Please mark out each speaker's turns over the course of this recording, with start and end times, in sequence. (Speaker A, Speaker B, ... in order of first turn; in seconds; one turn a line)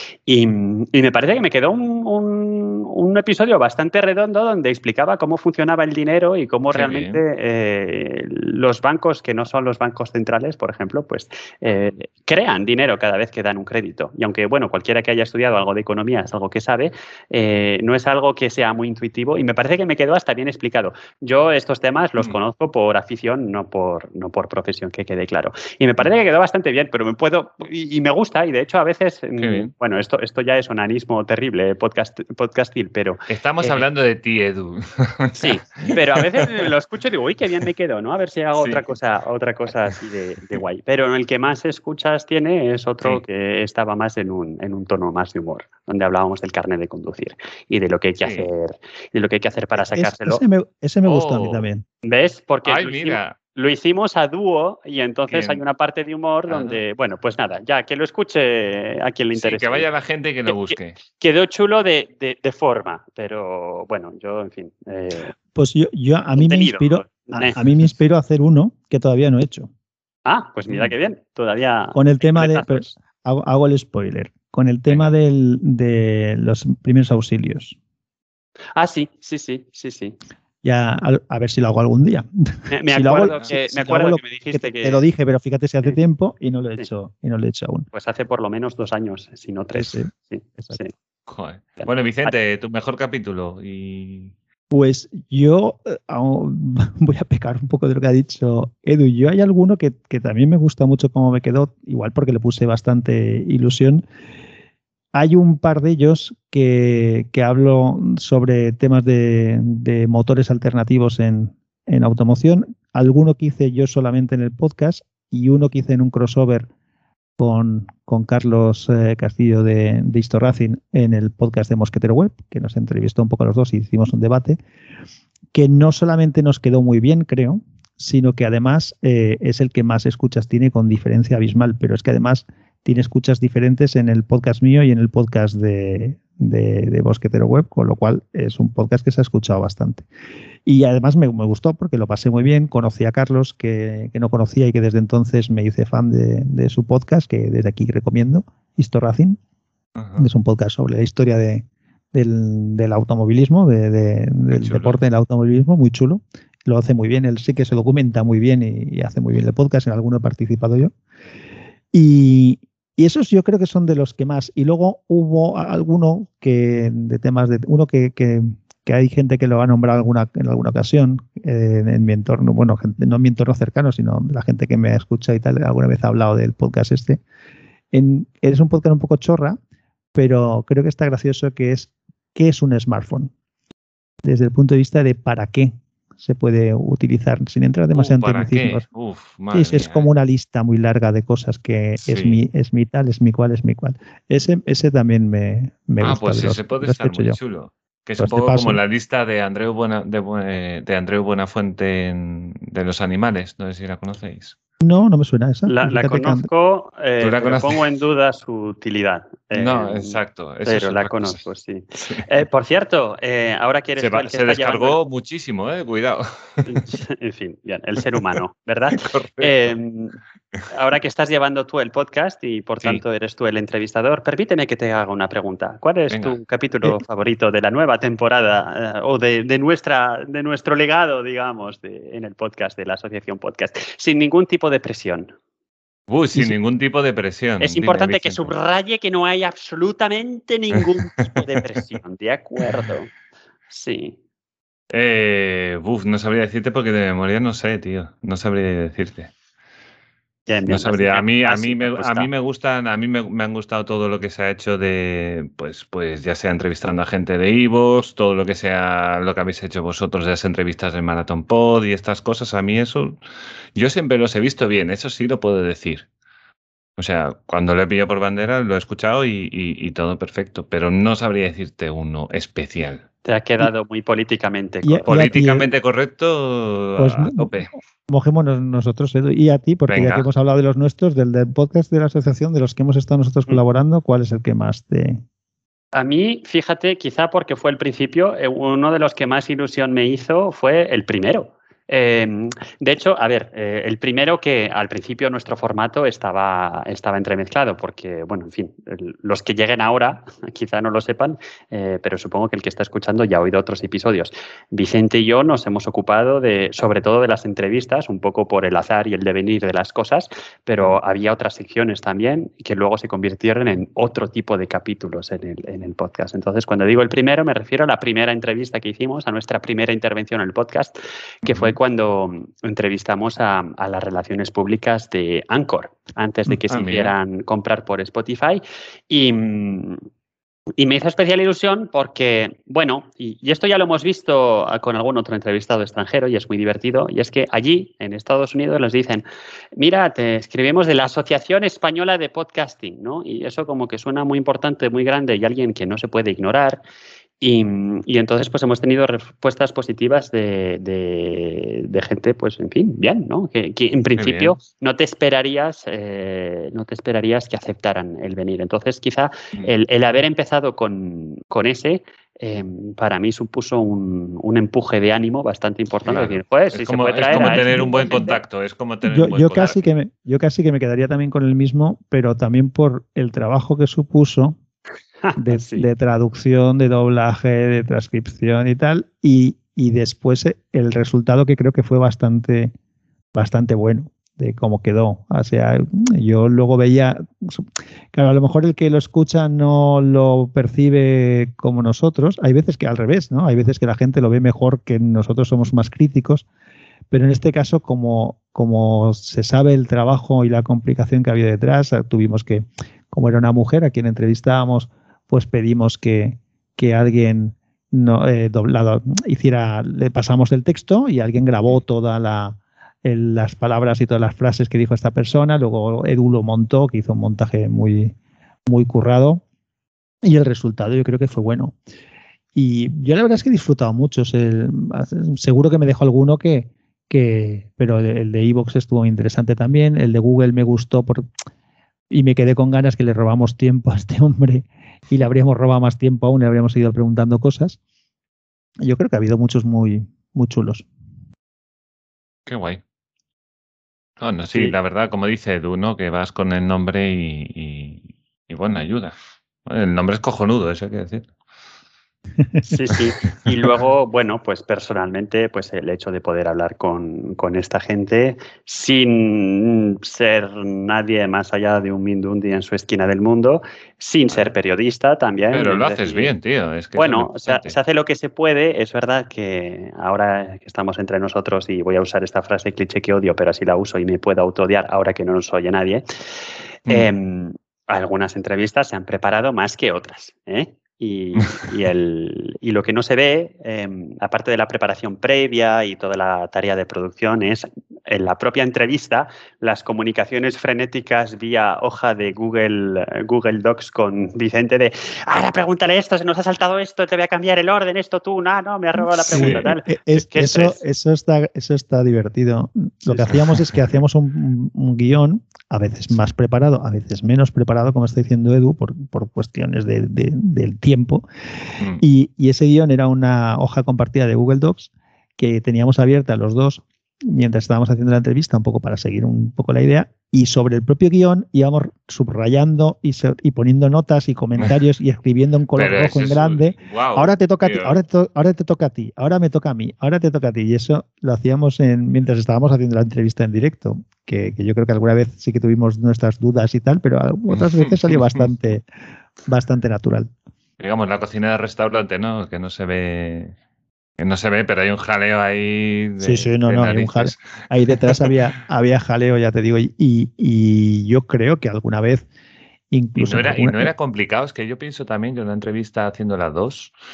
Speaker A: 0.3-33.8
Speaker B: 6.7-7.2
Speaker B: 29.4-29.7
Speaker B: 33.3-36.6
Speaker A: 35.4-50.4
Speaker B: 38.6-38.8
Speaker B: 48.2-48.5
Speaker C: 49.8-51.9
Speaker B: 51.0-51.6
Speaker A: 52.0-59.9
Speaker B: 52.6-53.4
Speaker B: 55.3-55.6
Speaker B: 56.5-56.8
Speaker B: 59.3-61.0
Speaker A: 60.5-65.3
Speaker C: 65.5-69.7
Speaker A: 66.4-67.6
Speaker A: 70.3-73.0
Speaker C: 71.9-77.8
Speaker A: 78.8-80.2
Speaker C: 80.6-87.9
Speaker A: 82.7-85.0
Speaker A: 87.9-90.9
Speaker C: 89.7-90.8
Speaker B: 91.3-94.3
Speaker A: 91.8-92.3
Speaker C: 94.7-104.0
Speaker C: 105.1-116.7
Speaker C: 117.4-124.6
Speaker C: 125.5-140.1
Speaker C: 140.7-149.4
Speaker B: 150.0-150.3
Speaker C: 150.2-160.9
Speaker B: 154.5-155.0
Speaker C: 161.9-177.2
Speaker C: 177.9-179.6
Speaker C: 180.2-183.3
Speaker C: 184.2-188.8
Speaker B: 187.9-190.1
Speaker C: 189.5-197.4
Speaker B: 192.0-192.4
Speaker B: 196.0-204.6
Speaker C: 198.2-198.8
Speaker C: 204.8-206.5
Speaker A: 205.7-215.0
Speaker B: 207.2-207.8
Speaker B: 209.5-211.4
Speaker B: 212.0-212.3
Speaker B: 214.0-216.9
Speaker A: 216.7-220.2
Speaker B: 218.9-219.8
Speaker A: 220.7-235.3
Speaker B: 226.1-226.4
Speaker B: 236.1-238.4
Speaker A: 237.6-243.1
Speaker B: 240.8-241.3
Speaker A: 243.7-244.2
Speaker B: 244.9-249.3
Speaker A: 250.5-252.3
Speaker B: 250.7-263.2
Speaker B: 263.8-266.1
Speaker B: 267.0-273.1
Speaker A: 273.2-275.3
Speaker C: 274.8-275.7
Speaker B: 275.1-277.7
Speaker C: 277.0-285.2
Speaker B: 279.9-280.3
Speaker A: 285.9-330.0
Speaker B: 321.4-321.8
Speaker B: 326.7-327.1
Speaker A: 330.8-339.2
Speaker A: 339.8-346.8
Speaker A: 347.4-368.4
Speaker B: 354.2-354.6
Speaker B: 366.1-369.8
Speaker C: 367.4-367.9
Speaker C: 369.0-374.6
Speaker A: 375.2-375.9
Speaker C: 375.4-382.7
Speaker C: 383.3-396.4
Speaker C: 397.1-418.1
Speaker C: 418.7-419.4
Speaker C: 420.2-421.8
Speaker C: 422.6-431.3
Speaker C: 432.1-437.8
Speaker C: 438.8-440.9
Speaker B: 442.5-442.8
Speaker B: 444.2-449.1
Speaker B: 449.7-451.3
Speaker C: 452.4-452.7
Speaker A: 452.6-466.3
Speaker B: 465.5-467.8
Speaker A: 467.0-476.1
Speaker A: 476.9-500.8
Speaker C: 499.0-511.2
Speaker B: 499.3-499.6
Speaker B: 503.1-503.8
Speaker B: 511.8-512.0
Speaker C: 512.0-538.9
Speaker B: 525.8-528.0
Speaker B: 537.5-538.5
Speaker C: 539.5-540.3
Speaker B: 540.8-543.5
Speaker B: 544.2-548.4
Speaker C: 546.2-552.3
Speaker C: 552.9-553.9
Speaker B: 553.2-556.9